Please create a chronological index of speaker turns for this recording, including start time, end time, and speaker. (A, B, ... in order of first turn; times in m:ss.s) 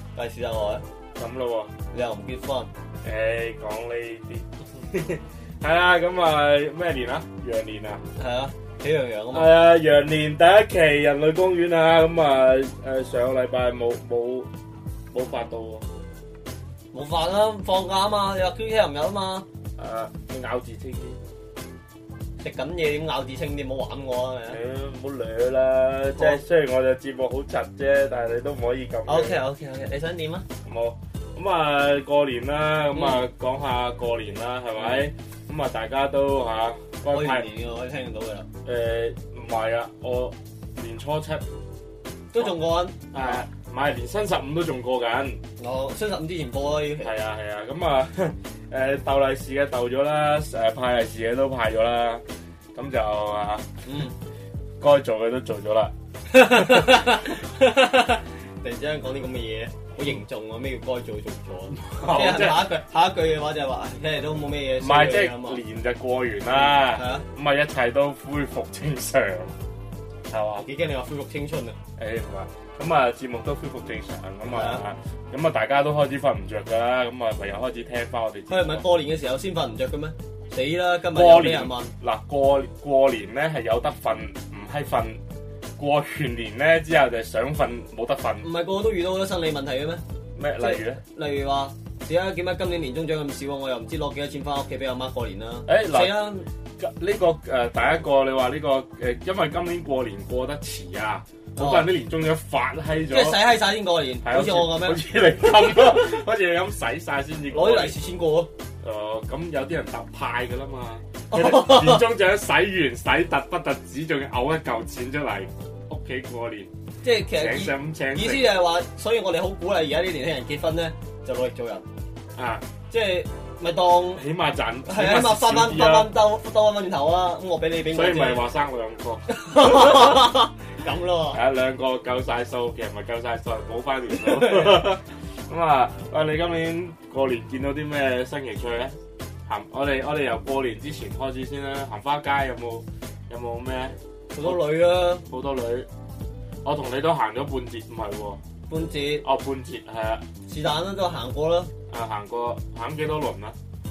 0:00.2-0:00.8 A
0:01.2-0:01.7 B
0:01.9-0:02.7 A
0:03.0-0:08.0 B
0:08.2-0:09.5 A
0:09.3-0:14.5 B
0:15.1-0:15.9 B
0:16.9-0:19.5 A
0:19.8-0:21.2 B
0:22.4-0:24.6 A
0:24.5-0:29.4 B
0:29.1-0:30.5 A
0:30.6-0:37.5 B
0:33.0-0:33.2 A
0:37.1-0:38.5 A
0:38.6-0:41.4 B
0:42.3-0:43.5 A
0:43.1-0:45.4 B
0:45.6-0:47.1 A
0:47.0-0:53.7 B
0:53.9-0:54.2 A
0:54.8-0:57.1 B
0:56.3-1:05.6 A
1:01.7-1:02.7 B
1:04.8-1:09.6 B
1:06.5-1:07.2 A
1:10.3-1:10.7 B
1:10.6-1:11.8 A
1:12.0-1:18.8 B
1:14.5-1:14.8 A
1:18.5-1:21.9 A
1:21.1-1:25.2 B
1:25.8-1:28.5 B
1:28.4-1:30.0 A
1:30.4-1:31.0 B
1:30.6-1:36.5 A
1:35.7-1:43.5 B
1:41.6-1:41.9 A
1:43.1-1:45.0 A
1:44.2-1:48.0 B
1:47.5-1:48.5 A
1:48.8-1:56.7 B
1:51.3-1:52.0 A
1:57.0-2:01.9 A
1:57.3-1:58.5 B
2:02.4-2:02.7 B
2:02.9-2:04.2 A
2:04.2-2:06.1 B
2:04.9-2:08.4 A
2:07.9-2:10.3 B
2:09.3-2:11.4 A
2:11.3-2:24.6 B
2:14.1-2:14.8 A
2:24.3-2:25.3 A
2:25.3-2:25.9 B
2:26.6-2:28.4 B
2:28.7-2:29.2 A
2:29.2-2:30.2 B
2:30.5-2:31.7 A
2:31.9-2:33.6 B